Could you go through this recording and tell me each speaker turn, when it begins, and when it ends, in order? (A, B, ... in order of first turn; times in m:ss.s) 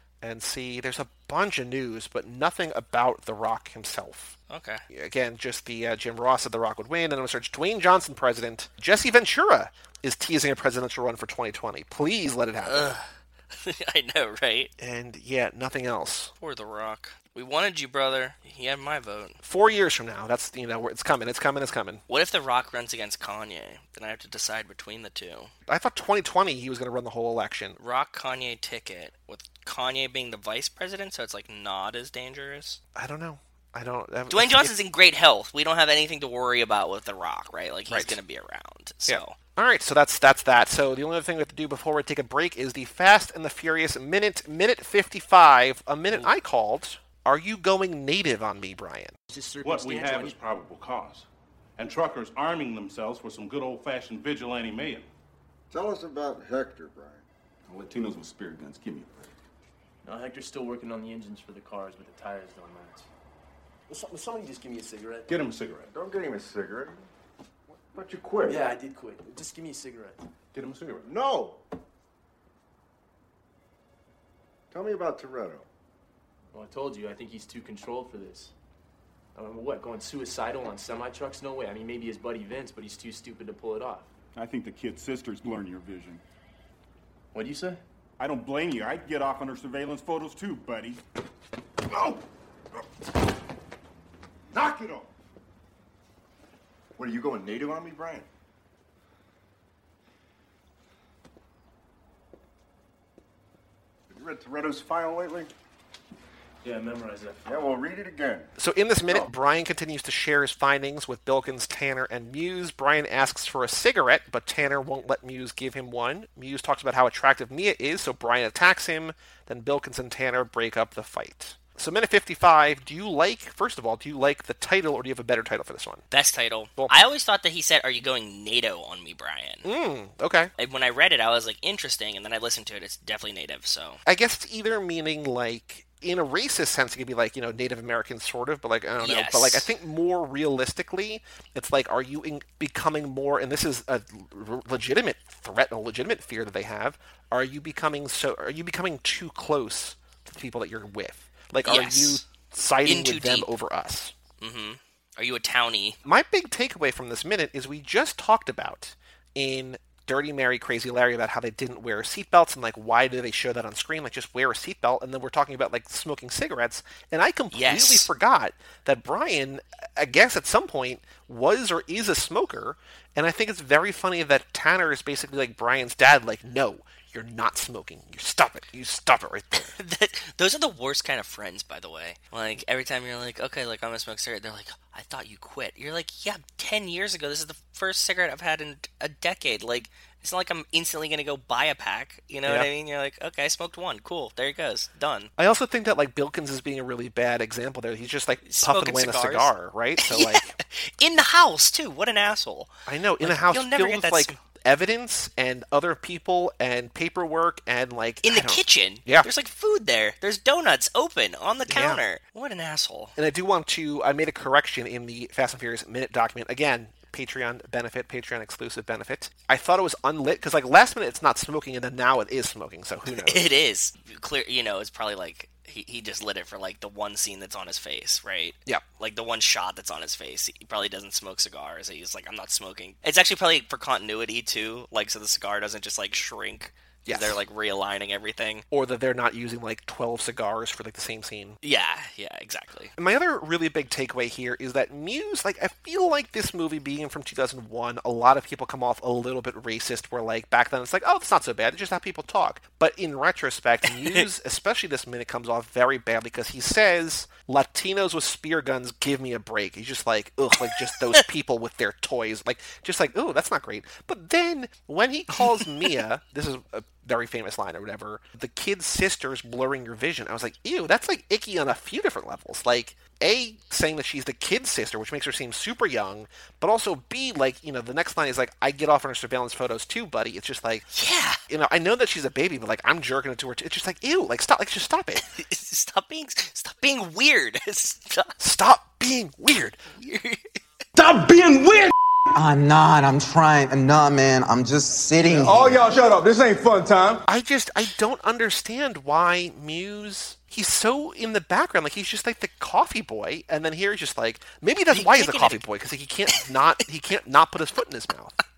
0:00.2-0:04.4 A
0:04.5-0:04.8 B
0:04.9-0:12.9 A
0:12.6-0:14.7 B
0:14.8-0:16.3 A
0:16.4-0:19.4 B
0:19.4-0:22.0 A
0:22.1-0:25.5 B
0:25.6-0:27.8 A
0:27.8-0:32.8 B
0:32.9-0:34.7 A
0:34.3-0:39.4 B
0:37.9-0:38.2 A
0:39.1-0:49.1 A
0:49.3-0:50.4 C
0:49.6-0:51.3 D
0:51.8-0:55.1 D
0:55.7-0:57.2 E
0:57.7-0:59.3 F
1:00.0-1:03.1 C
1:03.9-1:05.3 C
1:05.3-1:05.9 D
1:05.9-1:07.1 E
1:07.7-1:08.6 E
1:08.4-1:10.2 C
1:10.5-1:11.0 D
1:11.0-1:11.6 E
1:14.7-1:15.7 E
1:16.5-1:18.5 C
1:19.3-1:24.1 C
1:24.3-1:26.2 F
1:27.3-1:27.8 C
1:28.2-1:31.0 F
1:37.0-1:38.3 E
1:44.1-1:45.5 E
1:46.6-1:47.7 C
1:47.4-1:48.5 E
1:48.6-2:06.0 A
2:06.1-2:09.6 B
2:09.6-2:10.5 A
2:10.6-2:14.0 B
2:14.0-2:34.1 A
2:19.0-2:19.7 B
2:31.6-2:32.2 B
2:32.8-2:33.5 B
2:34.4-2:36.0 B
2:36.0-2:59.7 A
2:47.5-2:48.1 B
2:59.6-3:15.3 B
3:12.4-3:12.7 A
3:15.4-3:20.5 A
3:18.4-3:24.4 B
3:22.8-3:29.3 A
3:28.2-3:33.1 B
3:31.7-3:32.0 A
3:33.2-3:43.4 A
3:43.1-3:58.6 B
3:57.0-3:57.4 A
3:58.7-4:01.6 A
4:01.6-4:02.9 B
4:03.0-4:40.9 A
4:13.9-4:14.2 B
4:25.5-4:26.0 B
4:40.9-4:41.4 B
4:41.5-4:45.2 A
4:45.2-4:48.4 B
4:48.4-4:49.8 A
4:49.9-4:50.4 B
4:51.0-4:51.9 G
4:52.3-4:55.9 H
4:55.2-4:57.2 G
4:57.2-5:08.4 A
5:04.9-5:05.6 B